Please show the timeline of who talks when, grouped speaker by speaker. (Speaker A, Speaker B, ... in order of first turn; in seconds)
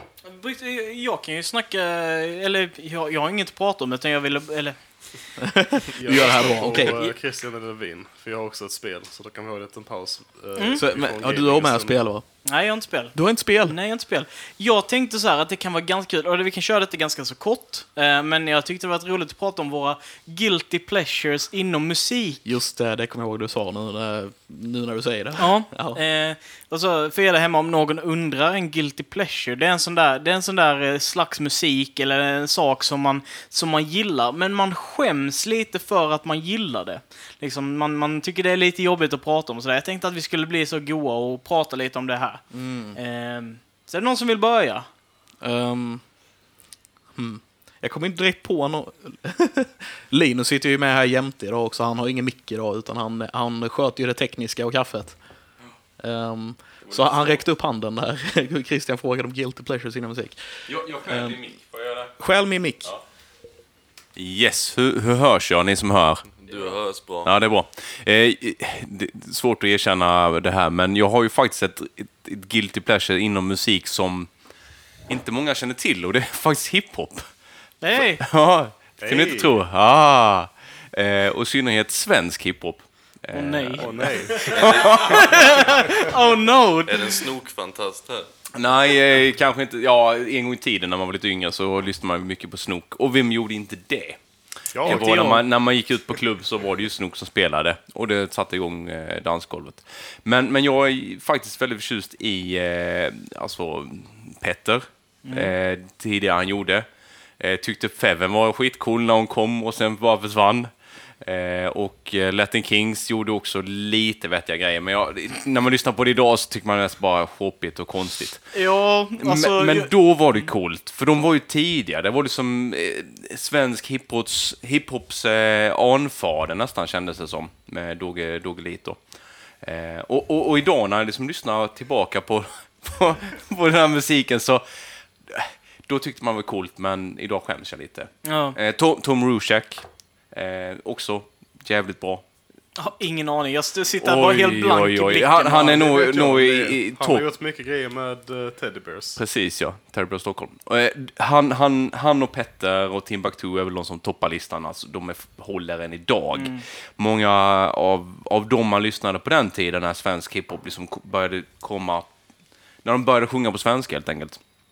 Speaker A: 0.2-5.5, 6.1-7.2, 10.6-10.8, 12.4-22.4, 25.4-44.9, 77.8-78.2, 83.3-87.2, 94.9-95.4, 105.2-105.5, 118.5-120.5, 138.2-138.6, 142.8-146.1, 156.3-156.7
Speaker B: 5.5-7.0, 10.8-13.8, 22.4-26.0, 42.5-43.0, 45.4-46.1, 47.1-63.0
Speaker C: 5.9-12.0, 79.0-79.6, 83.8-85.9, 94.7-95.5, 145.6-149.2
Speaker D: 56.8-57.5, 60.7-62.2, 64.1-85.7, 88.5-142.3, 144.0-147.3, 149.2-164.5
Speaker E: 66.4-67.3, 84.5-85.8, 86.8-88.3